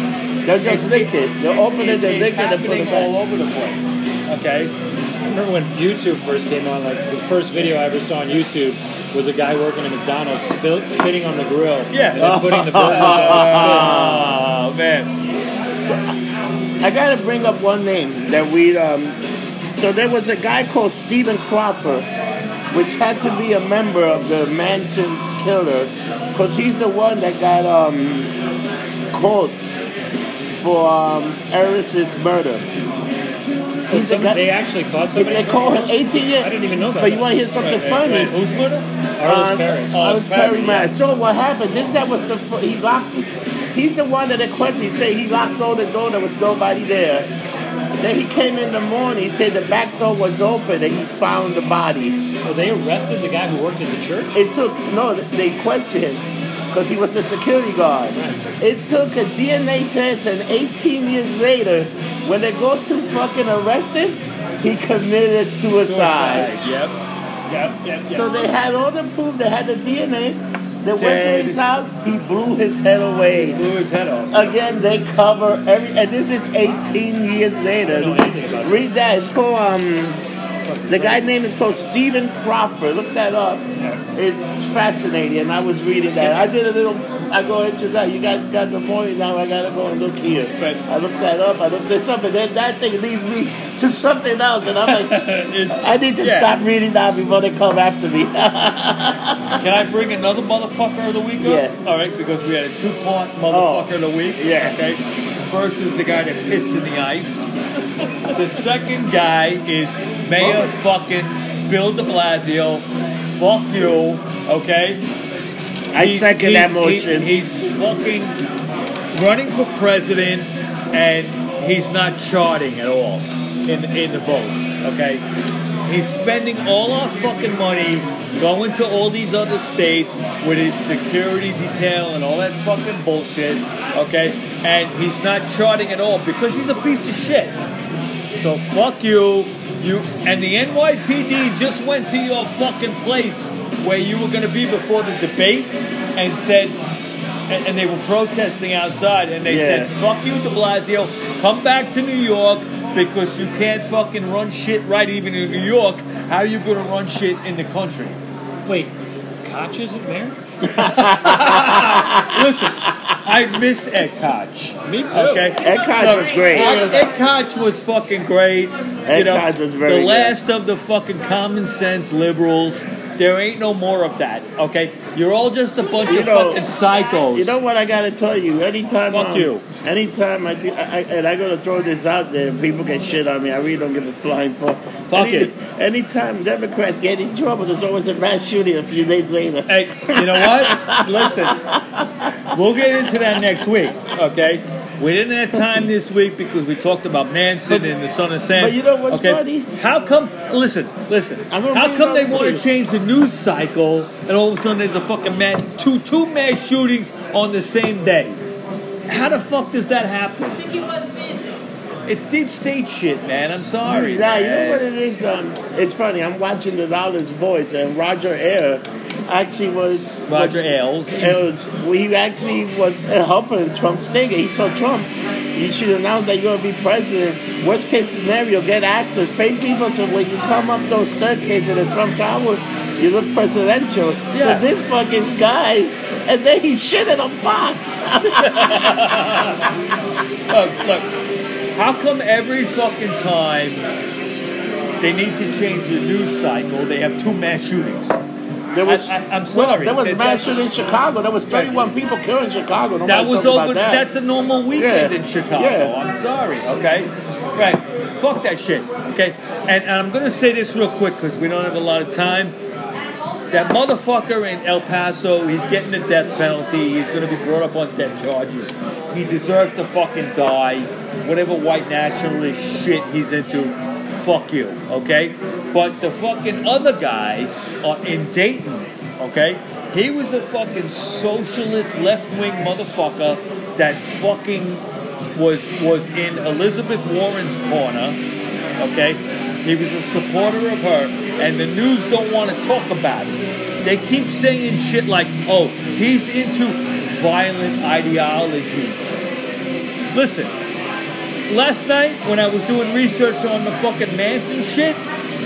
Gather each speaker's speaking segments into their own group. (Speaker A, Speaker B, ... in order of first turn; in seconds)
Speaker A: 0.4-3.1, 12.2-14.3, 16.8-19.2, 19.7-22.1, 22.7-28.3, 29.1-29.6, 30.6-32.7, 33.9-34.4, 35.1-38.4, 39.2-47.3, 48.0-52.2, 54.3-66.5, 68.1-73.6, 74.3-80.2, 80.9-99.6, 101.4-101.7, 103.5-104.8, 110.4-110.7, 115.9-117.3, 149.4-149.9, 160.7-163.1, 165.6-167.0, 169.1-170.3, 176.0-176.6, 177.3-192.6, 198.5-199.7, 201.5-202.7, 213.8-239.7, 248.7-254.1, 254.8-256.0
Speaker B: 0.6-4.7, 11.9-15.1, 37.6-38.9, 39.9-40.9, 65.8-66.9, 67.5-68.3, 71.0-71.6, 73.5-74.5, 80.7-81.2, 86.2-86.5, 94.8-96.5, 99.6-107.5, 108.3-112.8, 113.4-115.0, 116.0-118.4, 119.1-125.2, 125.9-137.5, 138.4-146.8, 147.5-158.2, 160.8-177.6, 179.1-179.6, 185.1-185.5, 189.7-191.6, 192.5-208.4, 209.1-210.9, 212.1-214.8, 220.3-221.4, 234.3-234.7, 238.3-239.6, 240.5-241.1, 241.7-243.8, 245.0-248.2, 248.8-250.5, 251.5-251.7, 253.1-262.5, 263.5-284.8, 285.4-288.2, 288.8-299.2, 300.1-300.5, 301.5-305.0
Speaker C: 5.2-14.1, 33.9-37.3, 39.2-40.0, 52.4-54.4, 77.8-78.9, 158.6-160.4, 164.8-165.5, 166.5-167.0